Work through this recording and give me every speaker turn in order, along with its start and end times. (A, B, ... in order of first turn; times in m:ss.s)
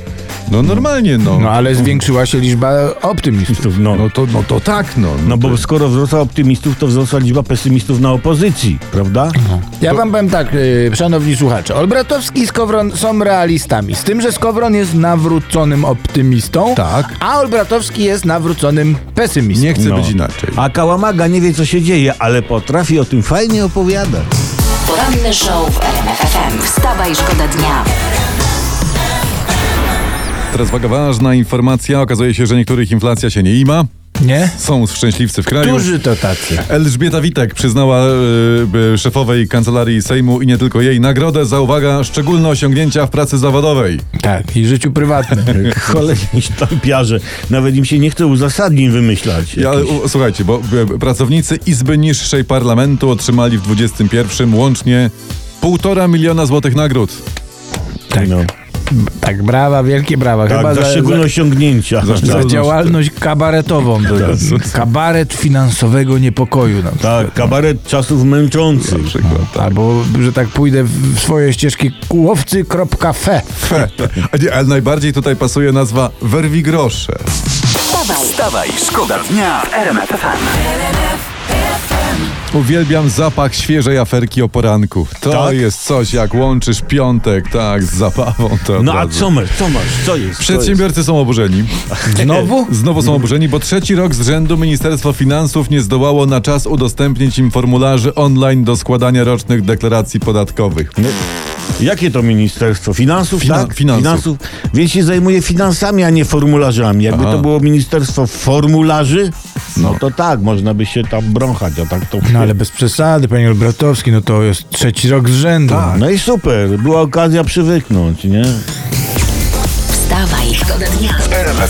0:00.5-0:01.6 A
0:01.2-0:03.6 B
0:03.5-0:04.0 C
0:03.9-0:05.6 A
0:05.2-0:09.4 C
0:09.4-0:19.7 B
0:16.7-0:17.2 A
0:19.5-0:20.6 A
0:19.7-0:24.3 C
0:24.8-0:27.9 D
0:30.5-0:33.9 A
0:34.2-0:34.6 B
0:34.5-0:35.9 A
0:35.6-0:36.7 B
0:36.6-0:44.0 A
0:44.2-0:45.8 B
0:45.4-0:50.0 C
0:49.6-0:57.2 A
0:58.1-0:58.5 C
0:58.9-1:01.3 B
1:00.5-1:02.5 C
1:02.0-1:03.0 A
1:02.2-1:07.3 B
1:04.1-1:04.8 A
1:04.1-1:04.5 C
1:07.0-1:09.1 C
1:08.8-1:09.7 A
1:09.5-1:13.7 B
1:13.6-1:17.3 A
1:17.9-1:18.2 D
1:18.1-1:20.6 E
1:22.5-1:29.3 A
1:25.3-1:25.6 C
1:28.8-1:30.8 C
1:30.4-1:31.9 A
1:32.0-1:32.5 C
1:32.1-1:32.7 B
1:32.6-1:40.9 A
1:41.8-1:52.5 C
1:43.4-1:44.3 A
1:47.1-1:47.5 A
1:52.2-1:56.0 B
1:55.7-1:58.6 C
1:59.9-2:01.5 D